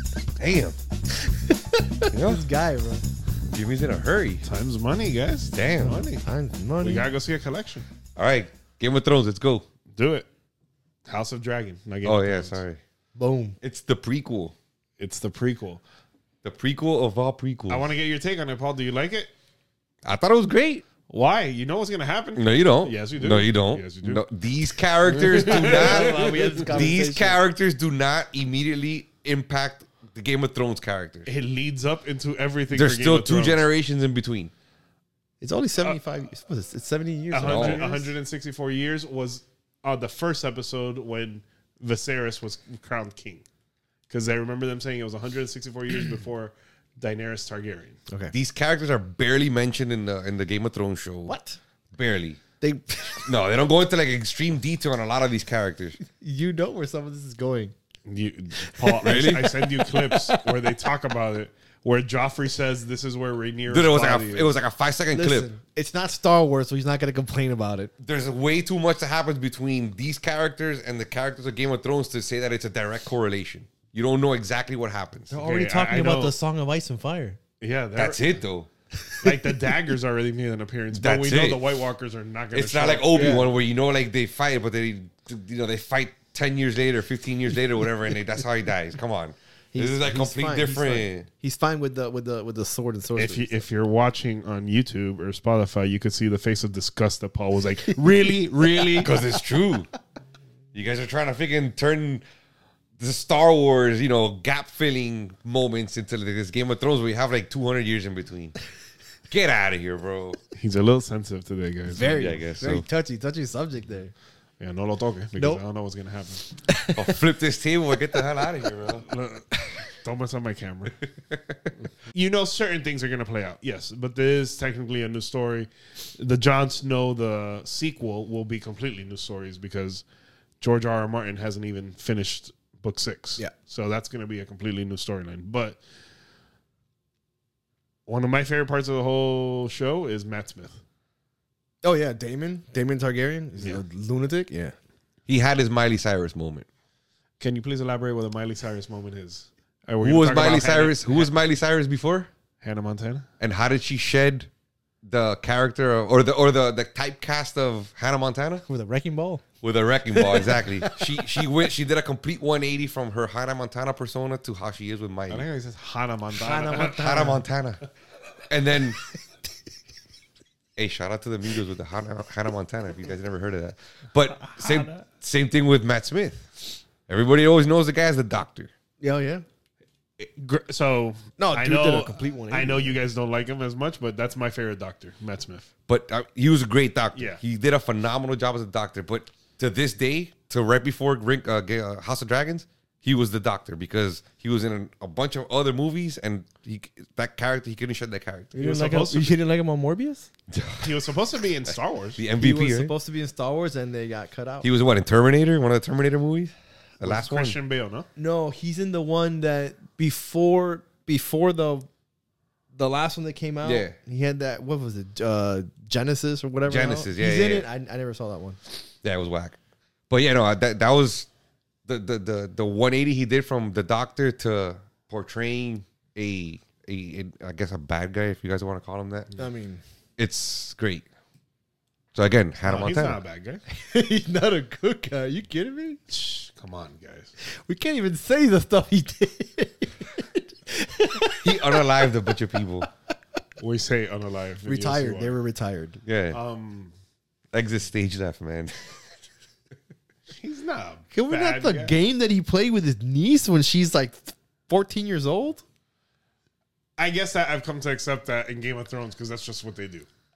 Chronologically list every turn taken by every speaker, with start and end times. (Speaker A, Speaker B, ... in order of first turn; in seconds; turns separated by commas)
Speaker A: 0.4-0.8, Speaker B: 1.4-3.0, Speaker A: 2.1-2.4, Speaker A: 3.5-4.5, Speaker C: 4.5-6.2, Speaker A: 5.5-6.1, Speaker B: 5.8-7.1, Speaker C: 6.8-7.8, Speaker A: 8.2-9.7, Speaker C: 10.0-10.3, Speaker C: 11.1-12.6, Speaker A: 12.0-12.8, Speaker B: 13.2-13.6, Speaker A: 13.6-14.6, Speaker C: 15.0-15.8, Speaker A: 16.4-17.9, Speaker C: 17.7-19.3, Speaker A: 20.1-20.9, Speaker C: 21.1-24.3, Speaker A: 22.4-31.3, Speaker C: 25.1-26.8, Speaker B: 25.1-27.4, Speaker C: 31.3-33.6, Speaker A: 32.7-34.5, Speaker B: 35.4-38.1, Speaker C: 37.3-43.5, Speaker A: 37.4-37.8, Speaker C: 44.1-48.0, Speaker A: 48.3-51.3, Speaker B: 51.3-51.6, Speaker A: 51.9-52.4, Speaker B: 52.6-53.3, Speaker A: 53.3-56.0, Speaker B: 56.0-57.7, Speaker C: 58.1-64.5, Speaker B: 58.6-60.5, Speaker A: 59.0-59.6, Speaker A: 63.7-65.5, Speaker B: 65.1-67.9, Speaker A: 68.0-75.3, Speaker B: 75.3-77.4, Speaker C: 75.4-76.4, Speaker C: 77.6-78.4, Speaker A: 78.0-78.7, Speaker B: 79.0-79.8, Speaker C: 79.2-83.4, Speaker A: 80.9-81.7, Speaker A: 82.5-91.3, Speaker B: 83.1-83.5, Speaker B: 89.7-93.5, Speaker C: 93.2-99.1, Speaker A: 99.0-99.9, Speaker A: 100.7-102.2, Speaker A: 103.0-108.5, Speaker A: 109.3-110.4, Speaker C: 110.5-112.2, Speaker B: 111.9-114.1, Speaker A: 112.0-112.8, Speaker C: 114.6-116.6, Speaker B: 115.4-115.6, Speaker B: 116.7-117.1, Speaker A: 117.0-119.1, Speaker C: 119.1-121.0, Speaker A: 121.1-121.7, Speaker C: 122.1-130.0, Speaker C: 130.6-135.8, Speaker C: 138.1-140.8, Speaker B: 141.8-144.8, Speaker A: 145.3-146.7, Speaker C: 147.4-151.3, Speaker A: 150.0-152.3, Speaker C: 152.6-153.3, Speaker A: 153.4-154.5, Speaker A: 155.0-158.7, Speaker B: 158.7-159.4, Speaker A: 159.6-165.5, Speaker B: 160.1-161.3, Speaker C: 165.3-167.2, Speaker B: 166.3-167.4, Speaker A: 166.9-167.8, Speaker A: 168.5-169.0, Speaker A: 170.8-178.7, Speaker C: 174.5-175.0, Speaker B: 179.0-179.4, Speaker C: 180.2-185.7, Speaker B: 181.4-183.0, Speaker A: 185.9-198.5, Speaker C: 187.2-187.4, Speaker B: 198.5-200.3, Speaker C: 198.6-199.4, Speaker A: 200.5-202.9, Speaker C: 200.8-202.2, Speaker B: 202.3-204.7, Speaker A: 204.6-207.6, Speaker C: 207.0-208.1, Speaker B: 208.2-211.9, Speaker B: 212.8-218.6, Speaker A: 213.6-213.9, Speaker A: 216.7-217.7, Speaker A: 219.0-219.6, Speaker A: 220.1-221.3, Speaker A: 221.9-229.3, Speaker B: 229.4-229.8, Speaker A: 230.2-231.1, Speaker A: 232.1-233.2, Speaker C: 232.7-233.6, Speaker B: 233.7-236.0, Speaker C: 236.1-237.3, Speaker B: 237.4-242.0, Speaker A: 241.4-242.9, Speaker C: 243.6-245.3, Speaker B: 244.7-246.0, Speaker A: 246.1-246.4, Speaker C: 246.3-246.9, Speaker A: 247.5-249.0, Speaker C: 250.3-252.0, Speaker B: 251.1-255.6, Speaker C: 257.0-260.1